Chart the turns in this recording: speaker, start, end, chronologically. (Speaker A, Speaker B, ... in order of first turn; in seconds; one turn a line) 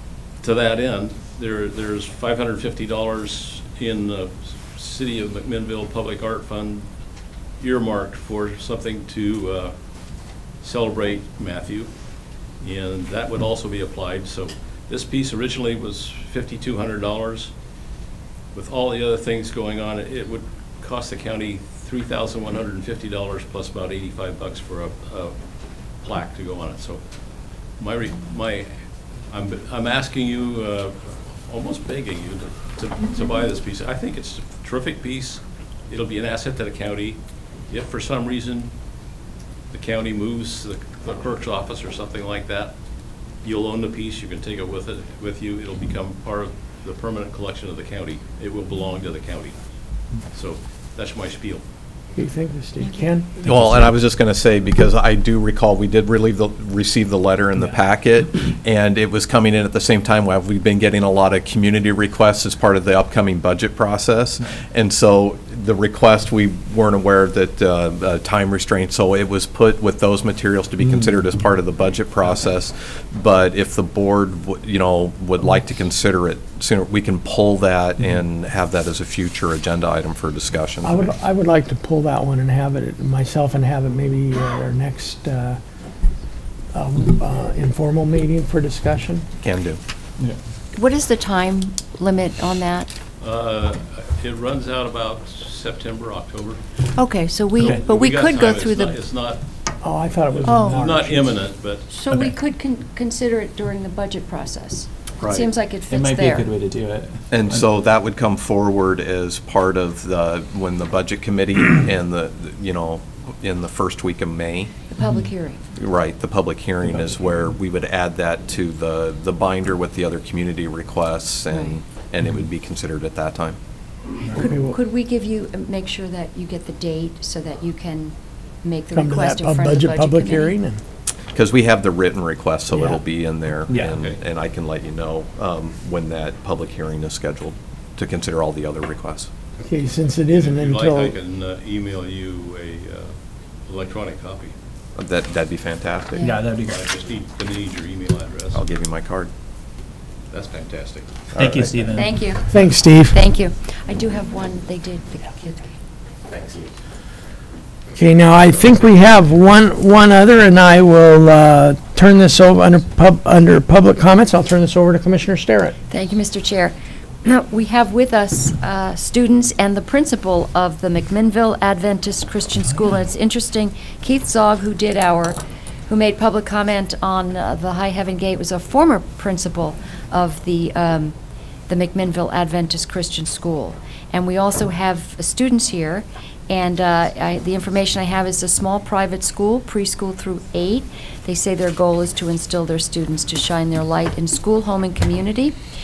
Speaker A: 0.4-17.5
Speaker A: 18.5-39.0
Speaker A: 39.7-51.6
Speaker B: 52.1-53.9
Speaker C: 53.4-81.1
Speaker B: 80.8-85.6
Speaker B: 86.7-89.3
Speaker C: 89.4-89.8
Speaker D: 90.7-92.9
Speaker A: 93.2-96.6
Speaker D: 97.0-99.0
Speaker A: 97.6-99.4
Speaker B: 99.8-101.4
Speaker A: 100.2-101.9
Speaker D: 100.5-100.8
Speaker D: 101.9-106.5
Speaker E: 105.9-107.7
Speaker C: 107.3-114.7
Speaker D: 114.9-115.6
Speaker E: 115.0-115.3
Speaker C: 115.8-123.6
Speaker D: 121.5-121.8
Speaker D: 124.3-130.6
Speaker B: 124.4-124.8
Speaker B: 128.9-130.8
Speaker C: 131.3-139.3
Speaker B: 132.7-133.0
Speaker E: 133.7-134.0
Speaker A: 133.9-134.2
Speaker B: 139.7-141.2
Speaker A: 140.3-144.5
Speaker C: 144.9-146.3
Speaker D: 146.1-146.5
Speaker E: 146.2-146.9
Speaker A: 146.4-148.6
Speaker C: 148.5-149.3
Speaker A: 150.3-151.1
Speaker C: 151.3-151.8
Speaker E: 151.3-152.2
Speaker D: 151.9-155.8
Speaker B: 152.5-153.2
Speaker A: 156.3-156.7
Speaker B: 157.9-165.8
Speaker D: 165.9-175.4
Speaker D: 175.9-181.2
Speaker D: 181.7-195.6